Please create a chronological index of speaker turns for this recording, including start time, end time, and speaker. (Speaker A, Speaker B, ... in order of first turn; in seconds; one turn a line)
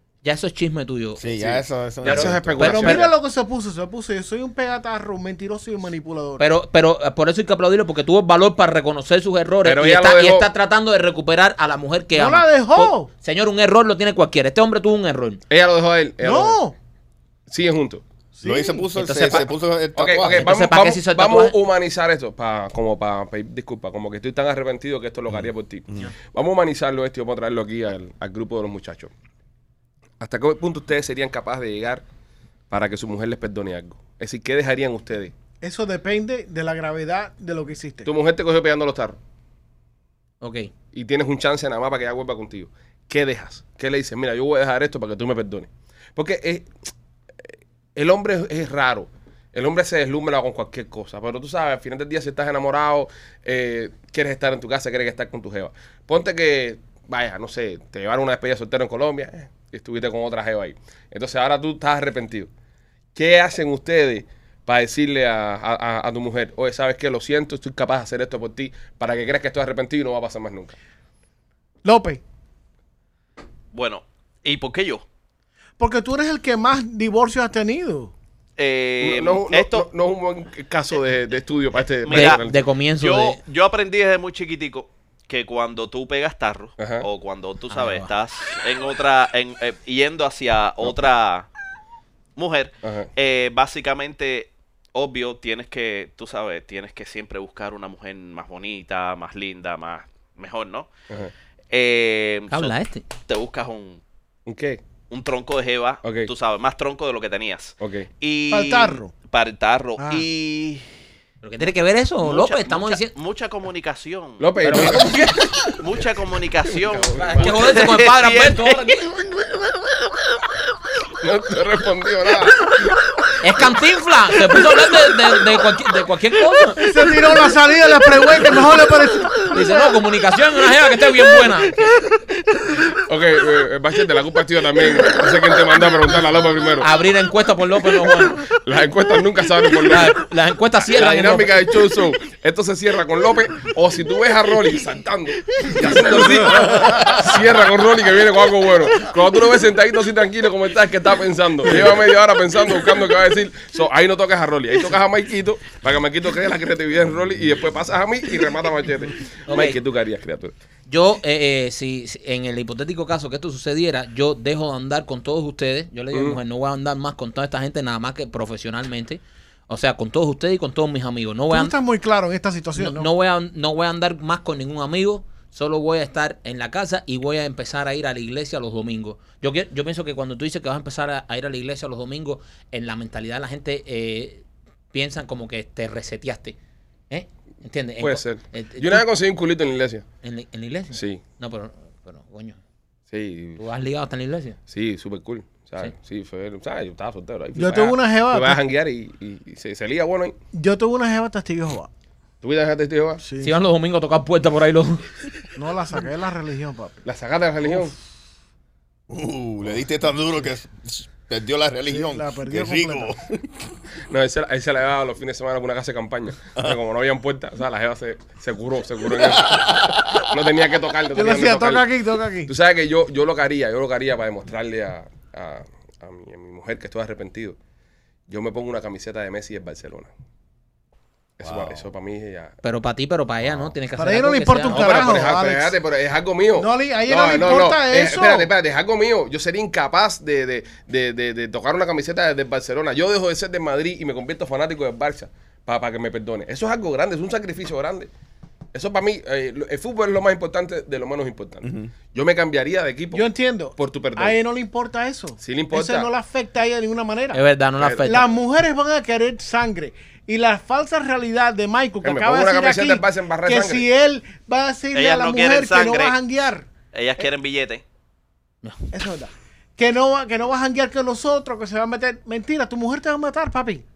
Speaker A: 0.2-1.3
Speaker B: 1.2-3.0
Speaker C: 1.3-3.1
Speaker A: 2.0-3.1
Speaker D: 2.6-6.5
Speaker A: 6.4-15.4
Speaker C: 9.6-10.5
Speaker D: 12.2-13.1
Speaker C: 15.5-16.6
Speaker D: 16.2-16.7
Speaker C: 17.5-18.0
Speaker D: 18.4-18.9
Speaker B: 18.4-20.5
Speaker A: 19.0-19.5
Speaker C: 20.0-29.1
Speaker A: 20.4-21.5
Speaker B: 25.3-26.1
Speaker C: 30.2-32.0
Speaker C: 32.7-35.3
Speaker D: 35.6-38.1
Speaker C: 38.0-39.2
Speaker A: 40.4-40.7
Speaker C: 40.9-46.7
Speaker C: 48.0-62.5
Speaker C: 63.1-70.7
Speaker D: 71.8-72.2
Speaker E: 73.7-75.0
Speaker D: 75.8-78.1
Speaker E: 78.6-79.9
Speaker C: 79.0-82.6
Speaker E: 82.0-82.4
Speaker A: 82.1-83.4
Speaker E: 83.0-91.5
Speaker C: 86.8-87.1
Speaker A: 87.7-88.1
Speaker E: 92.4-100.9
Speaker C: 92.8-93.1
Speaker E: 101.7-102.7
Speaker A: 102.5-103.1
Speaker E: 103.2-104.0
Speaker C: 104.5-104.8
Speaker E: 105.1-110.9
Speaker C: 106.0-106.3
Speaker C: 107.8-108.1
Speaker D: 108.5-109.1
Speaker D: 110.0-110.3
Speaker A: 111.4-113.1
Speaker E: 112.2-118.9
Speaker C: 114.4-115.7
Speaker A: 114.6-115.5
Speaker C: 116.7-117.7
Speaker A: 117.2-119.2
Speaker C: 121.2-122.8
Speaker A: 123.4-126.8
Speaker D: 126.8-129.5
Speaker A: 129.5-132.1
Speaker C: 132.9-136.9
Speaker A: 136.8-138.4
Speaker C: 138.5-140.2
Speaker A: 139.9-141.6
Speaker C: 140.9-160.5
Speaker B: 146.6-147.2
Speaker A: 159.5-159.8
Speaker A: 160.9-171.7
Speaker C: 166.1-166.4
Speaker D: 171.5-173.1
Speaker A: 172.8-186.6
Speaker A: 187.1-189.1
Speaker C: 188.0-190.1
Speaker A: 190.2-192.6
Speaker C: 190.9-191.2
Speaker C: 193.1-193.6
Speaker A: 193.6-194.6
Speaker C: 194.7-200.4
Speaker D: 197.6-198.6
Speaker D: 200.5-201.9
Speaker C: 202.4-203.2
Speaker D: 203.2-203.6
Speaker A: 203.4-205.1
Speaker D: 205.6-207.0
Speaker C: 207.1-207.9
Speaker B: 209.1-213.7
Speaker D: 211.9-213.1
Speaker C: 214.1-221.9
Speaker B: 219.3-220.2
Speaker D: 221.2-222.5
Speaker C: 222.5-227.6
Speaker C: 228.3-230.1
Speaker C: 231.4-232.6
Speaker B: 231.4-231.8
Speaker A: 232.6-235.2
Speaker D: 234.0-235.8
Speaker C: 234.7-248.1
Speaker D: 236.6-238.5
Speaker C: 248.7-254.4
Speaker B: 251.6-251.9
Speaker D: 253.1-257.4
Speaker C: 255.4-256.1
Speaker A: 257.3-258.3
Speaker C: 257.8-258.1
Speaker D: 258.1-267.3
Speaker C: 262.0-263.9
Speaker E: 264.9-266.2
Speaker E: 266.9-267.8
Speaker D: 268.9-273.8